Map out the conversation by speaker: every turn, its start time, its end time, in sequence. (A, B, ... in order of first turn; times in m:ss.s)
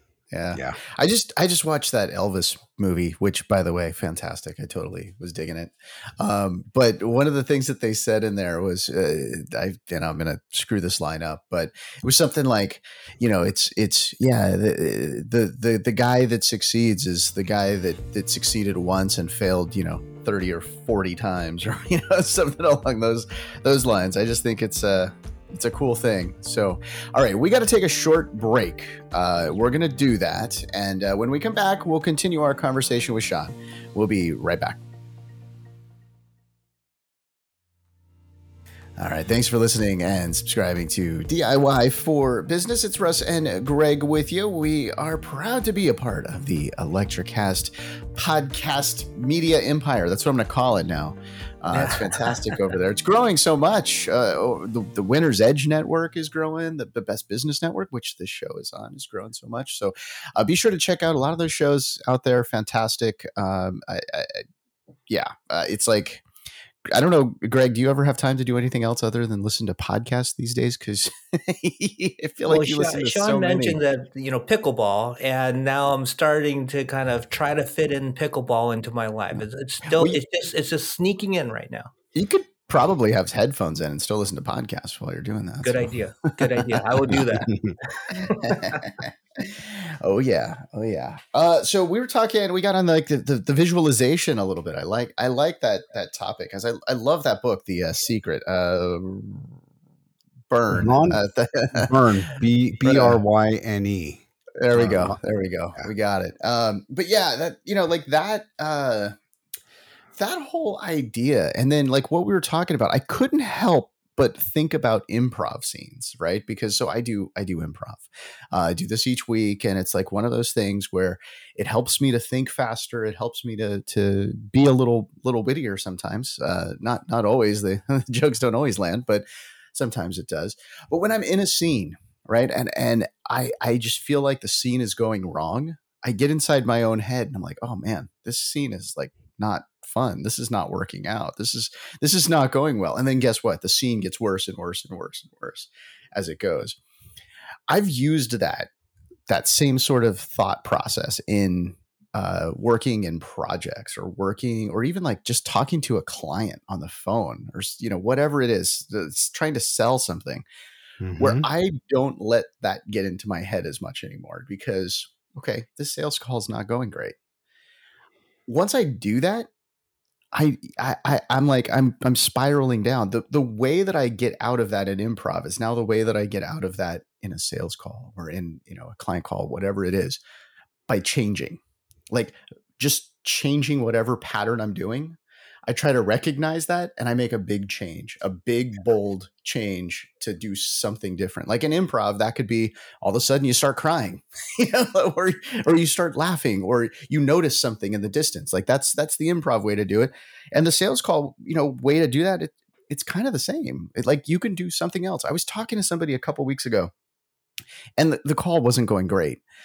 0:00.3-0:34.8 A
0:00.5-0:00.8 B
0:39.0-1:04.4 A
0:51.7-0:52.5 C
1:05.1-1:06.2 A
1:06.9-1:13.8 A
1:12.5-1:21.9 C
1:19.9-1:20.2 A
1:22.1-1:27.2 A
1:25.6-1:28.8 C
1:28.2-1:39.6 A
1:40.5-1:41.9 A
1:40.7-1:41.2 B
1:41.7-1:45.2 B
1:42.8-1:43.2 A
1:44.6-1:49.2 A
1:50.1-2:26.8 A
2:27.7-2:28.7 A
2:29.3-2:40.4 A
2:41.0-2:41.5 B
2:41.2-2:47.1 A
2:48.5-2:49.5 A
2:50.3-3:00.2 A
3:00.9-3:26.9 A
3:28.0-3:29.4 A